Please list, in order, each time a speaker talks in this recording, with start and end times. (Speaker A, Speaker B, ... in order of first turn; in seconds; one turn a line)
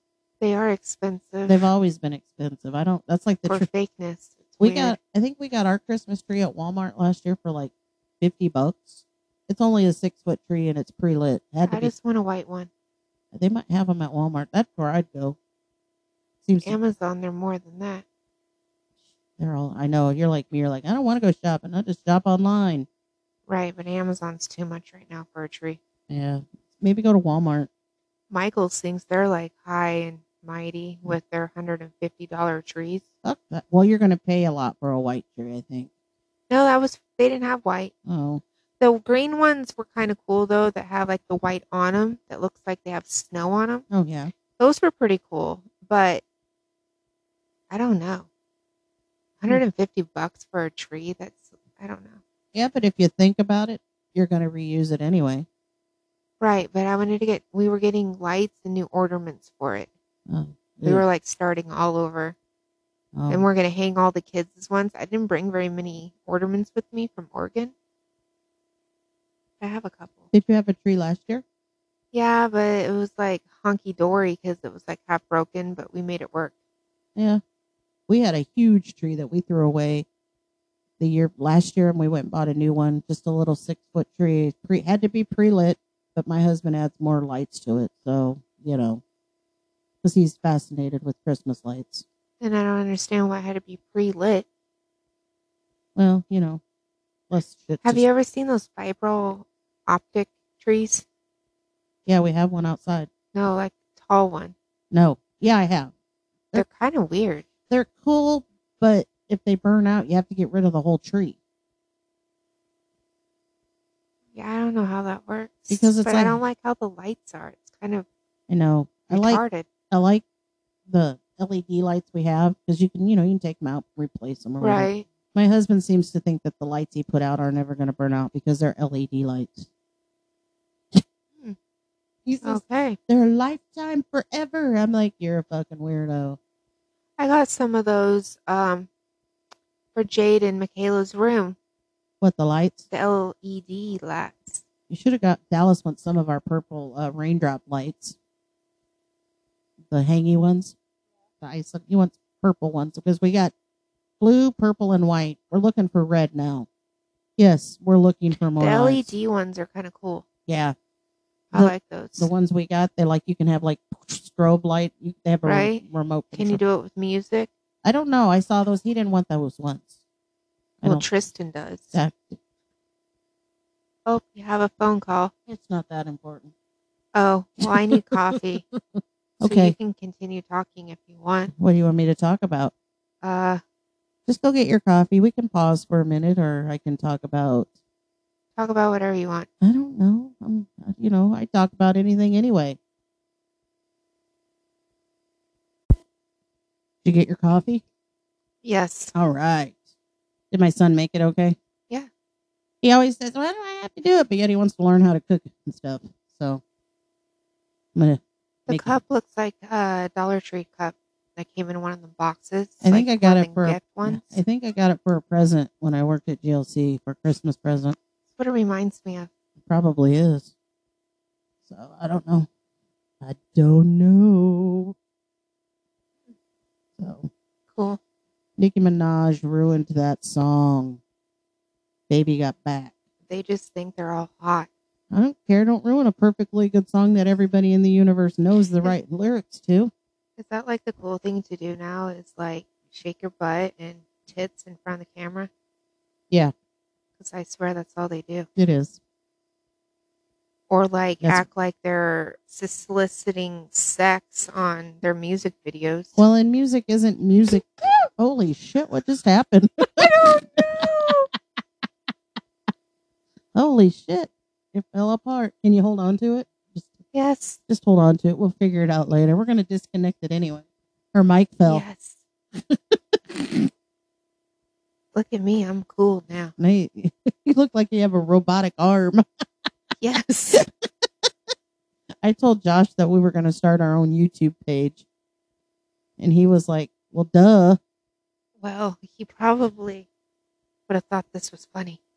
Speaker A: 0.4-1.6
Speaker B: 1.4-3.7
Speaker A: 3.5-5.0
Speaker B: 4.6-11.9
Speaker A: 11.6-12.7
Speaker B: 13.3-15.4
Speaker B: 16.4-16.8
Speaker A: 16.6-18.0
Speaker B: 19.4-22.9
Speaker A: 23.5-25.8
Speaker B: 26.1-27.7
Speaker A: 28.3-33.0
Speaker B: 33.2-35.9
Speaker A: 36.5-37.9
Speaker B: 38.0-38.4
Speaker A: 38.8-43.9
Speaker B: 43.9-44.3
Speaker A: 44.5-46.2
Speaker A: 47.7-48.3
Speaker A: 49.4-52.2
Speaker B: 52.5-55.5
Speaker A: 56.4-59.9
Speaker B: 60.3-61.0
Speaker A: 60.8-62.4
Speaker B: 63.1-63.4
Speaker A: 63.3-67.7
Speaker A: 69.6-70.2
Speaker B: 70.3-71.4
Speaker A: 72.1-76.5
Speaker B: 77.2-77.4
Speaker B: 78.1-80.0
Speaker B: 81.0-89.0
Speaker B: 90.0-92.0
Speaker A: 92.4-94.5
Speaker B: 96.0-96.6
Speaker B: 97.3-98.0
Speaker A: 97.8-101.0
Speaker B: 102.0-103.1
Speaker A: 103.3-104.5
Speaker B: 104.9-105.9
Speaker A: 106.5-107.5
Speaker B: 107.7-111.4
Speaker A: 114.3-118.0
Speaker B: 115.7-116.4
Speaker B: 118.5-120.2
Speaker A: 119.1-119.7
Speaker B: 120.9-129.7
Speaker A: 124.6-125.1
Speaker B: 132.2-136.4
Speaker A: 132.4-133.0
Speaker A: 137.2-138.9
Speaker A: 139.9-141.6
Speaker B: 142.2-142.8
Speaker A: 142.9-144.6
Speaker B: 144.9-148.2
Speaker B: 149.9-150.7
Speaker B: 151.4-153.5
Speaker B: 154.2-156.7
Speaker B: 157.4-159.1
Speaker A: 158.6-160.2
Speaker B: 160.5-160.7
Speaker A: 161.5-162.3
Speaker B: 161.5-166.6
Speaker A: 165.4-167.5
Speaker B: 167.8-169.9
Speaker A: 170.8-171.9
Speaker B: 171.9-172.4
Speaker A: 174.1-175.3
Speaker B: 175.5-176.5
Speaker A: 177.1-178.6
Speaker B: 177.7-179.7
Speaker A: 179.4-181.5
Speaker B: 181.5-182.7
Speaker A: 183.2-183.6
Speaker B: 184.3-187.7
Speaker A: 188.6-189.5
Speaker B: 189.6-192.8
Speaker B: 197.0-197.8
Speaker A: 198.6-199.1
Speaker B: 199.1-199.8
Speaker B: 200.5-201.6
Speaker B: 202.8-206.6
Speaker B: 207.9-208.9
Speaker A: 208.7-214.4
Speaker B: 212.8-218.0
Speaker A: 218.3-219.3
Speaker B: 219.6-220.5
Speaker B: 221.7-222.5
Speaker B: 223.2-224.9
Speaker B: 227.0-227.3
Speaker B: 228.6-231.0
Speaker B: 232.1-232.9
Speaker A: 233.3-234.7
Speaker B: 235.1-239.9
Speaker A: 240.4-245.5
Speaker A: 247.2-248.5
Speaker B: 248.6-249.0
Speaker A: 250.7-256.2
Speaker B: 256.2-257.6
Speaker B: 258.2-260.9
Speaker A: 260.0-261.3
Speaker B: 263.5-267.0
Speaker A: 267.1-267.6
Speaker B: 267.7-271.8
Speaker A: 271.6-272.2
Speaker B: 272.6-273.7
Speaker A: 275.1-276.5
Speaker B: 276.6-279.2
Speaker A: 280.0-280.6
Speaker B: 282.2-285.0
Speaker B: 286.2-287.8
Speaker A: 288.6-290.1
Speaker A: 290.9-292.0